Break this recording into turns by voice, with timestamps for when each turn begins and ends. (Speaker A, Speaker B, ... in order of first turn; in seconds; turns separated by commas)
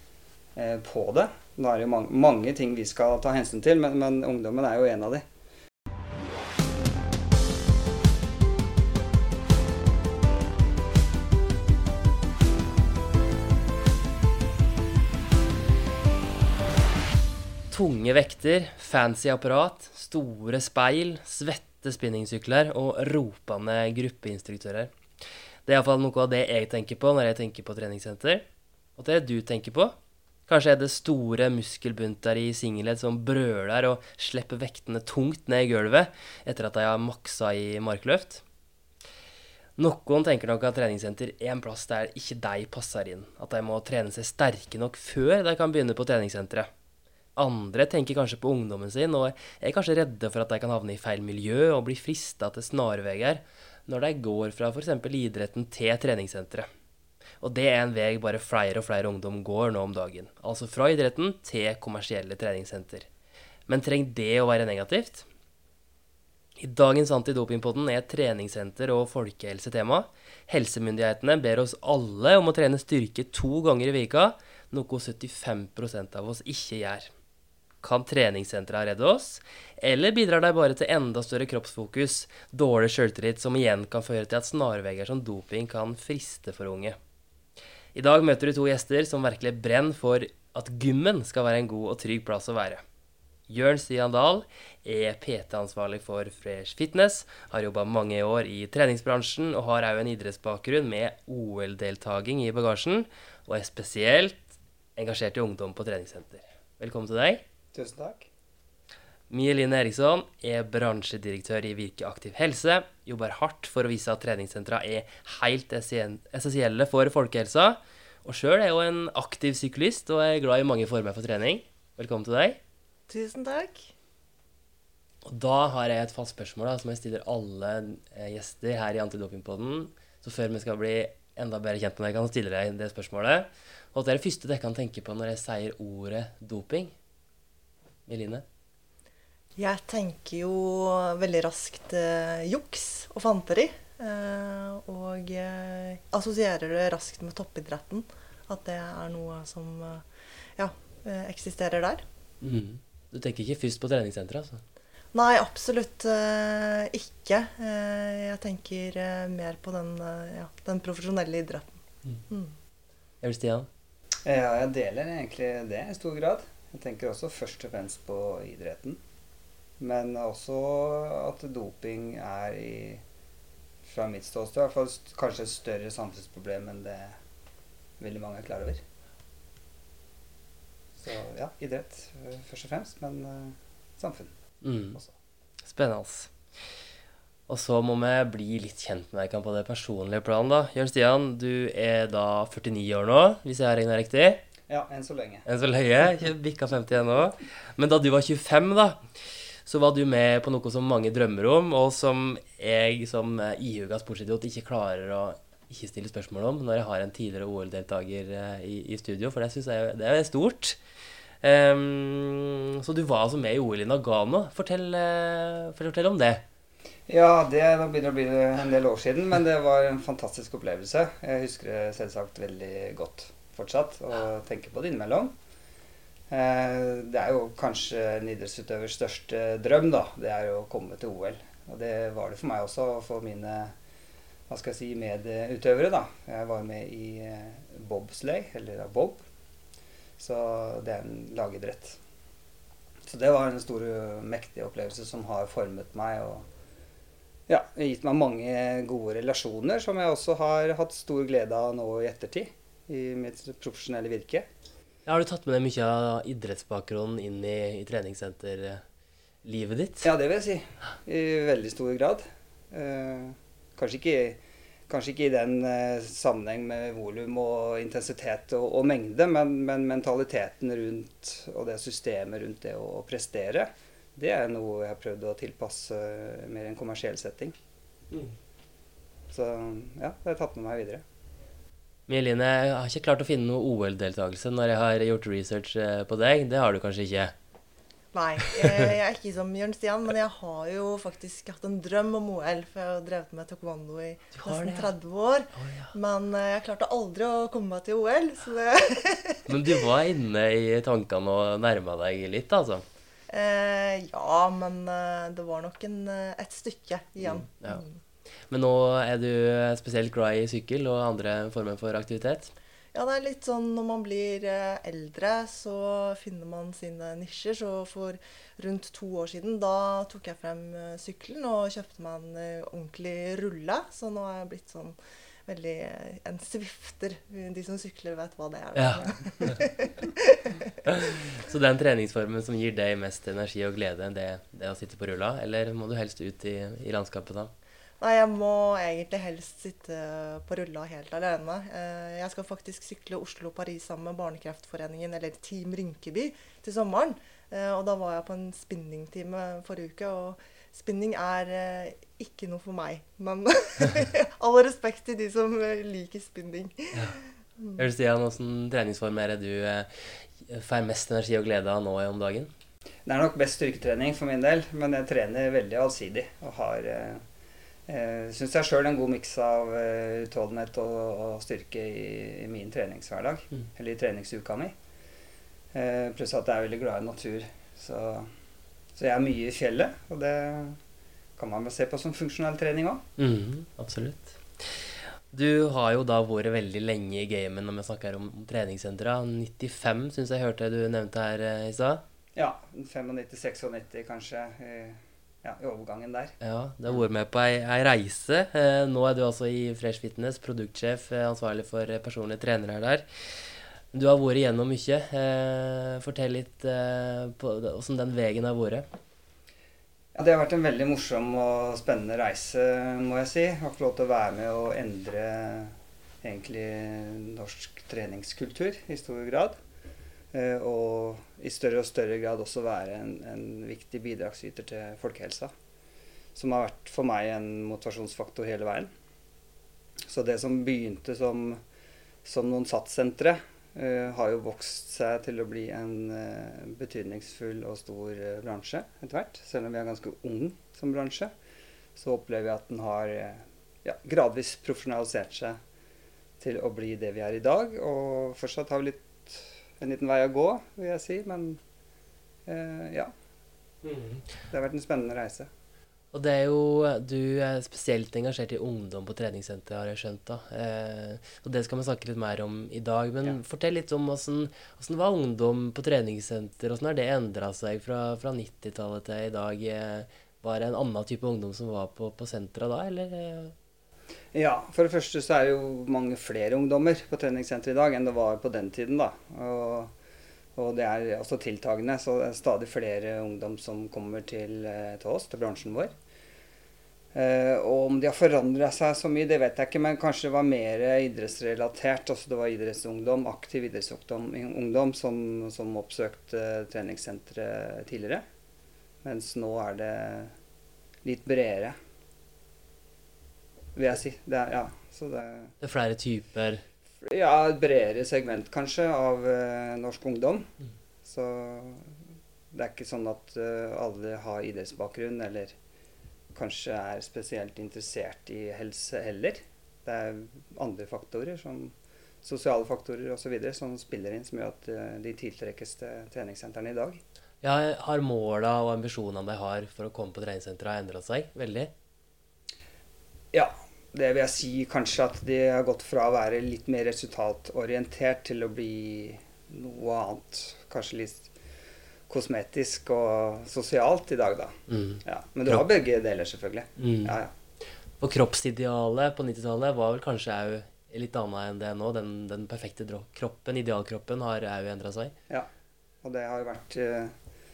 Speaker A: 0.5-5.2, Speaker B: 17.7-24.9, Speaker B: 25.6-28.4, Speaker B: 29.0-29.9, Speaker B: 30.5-38.4, Speaker B: 39.8-46.7, Speaker B: 47.4-56.7, Speaker B: 57.4-63.1, Speaker B: 63.7-65.2, Speaker B: 66.6-77.1, Speaker B: 77.8-87.0, Speaker B: 87.9-92.8, Speaker B: 93.5-107.4, Speaker A: 107.7-108.3, Speaker B: 109.3-122.6, Speaker C: 123.1-123.9, Speaker B: 125.2-136.9, Speaker B: 138.1-138.4, Speaker C: 139.6-150.0, Speaker C: 150.6-152.0, Speaker B: 152.4-154.6, Speaker C: 155.1-162.5, Speaker B: 163.2-163.7, Speaker A: 164.2-169.0, Speaker A: 169.8-173.0, Speaker A: 173.8-177.2, Speaker A: 178.0-178.8, Speaker A: 181.0-184.3, Speaker B: 184.6-185.0, Speaker B: 185.6-186.3, Speaker B: 187.5-194.4, Speaker A: 194.7-195.5, Speaker B: 195.4-199.1, Speaker B: 199.6-210.8, Speaker B: 211.4-216.4, Speaker A: 217.1-225.3, Speaker A: 226.3-233.7, Speaker A: 234.5-239.2, Speaker A: 240.2-242.0, Speaker A: 243.1-246.4, Speaker A: 247.5-254.5, Speaker B: 255.1-258.8, Speaker B: 259.4-260.1, Speaker A: 260.0-277.5, Speaker A: 279.3-281.0, Speaker B: 282.1-287.3, Speaker C: 288.1-299.5, Speaker B: 294.3-294.9, Speaker B: 295.5-295.9, Speaker B: 299.5-302.8, Speaker C: 303.3-307.9, Speaker B: 307.2-307.8, Speaker B: 308.5-312.5, Speaker C: 312.9-324.9, Speaker C: 325.5-330.7, Speaker B: 328.8-329.6, Speaker B: 330.9-337.5, Speaker C: 338.0-357.8, Speaker B: 357.8-362.5, Speaker A: 363.1-367.2, Speaker A: 367.9-374.7, Speaker A: 375.7-378.3, Speaker A: 378.9-380.8, Speaker A: 381.4-383.0, Speaker B: 383.2-392.0, Speaker A: 392.4-396.4, Speaker B: 396.4-403.1, Speaker B: 403.9-408.9, Speaker A: 410.1-419.6, Speaker A: 420.3-425.5, Speaker A: 426.3-428.9, Speaker A: 430.1-431.6, Speaker A: 432.2-441.3, Speaker A: 441.9-445.6, Speaker A: 446.4-451.6, Speaker A: 452.5-453.1, Speaker B: 453.8-454.2, Speaker A: 454.5-455.5, Speaker B: 456.1-473.5, Speaker A: 474.3-479.9, Speaker A: 480.6-485.9, Speaker A: 487.1-498.2, Speaker A: 499.0-500.3, Speaker A: 501.0-501.8, Speaker A: 503.7-505.5, Speaker B: 505.6-506.6, Speaker A: 507.0-510.5, Speaker A: 511.0-511.9, Speaker A: 512.5-515.5, Speaker A: 516.3-527.0, Speaker B: 527.4-531.7, Speaker A: 533.3-541.3, Speaker A: 542.1-547.3, Speaker B: 544.7-545.6, Speaker B: 546.8-547.1, Speaker B: 548.0-555.1, Speaker A: 556.0-557.1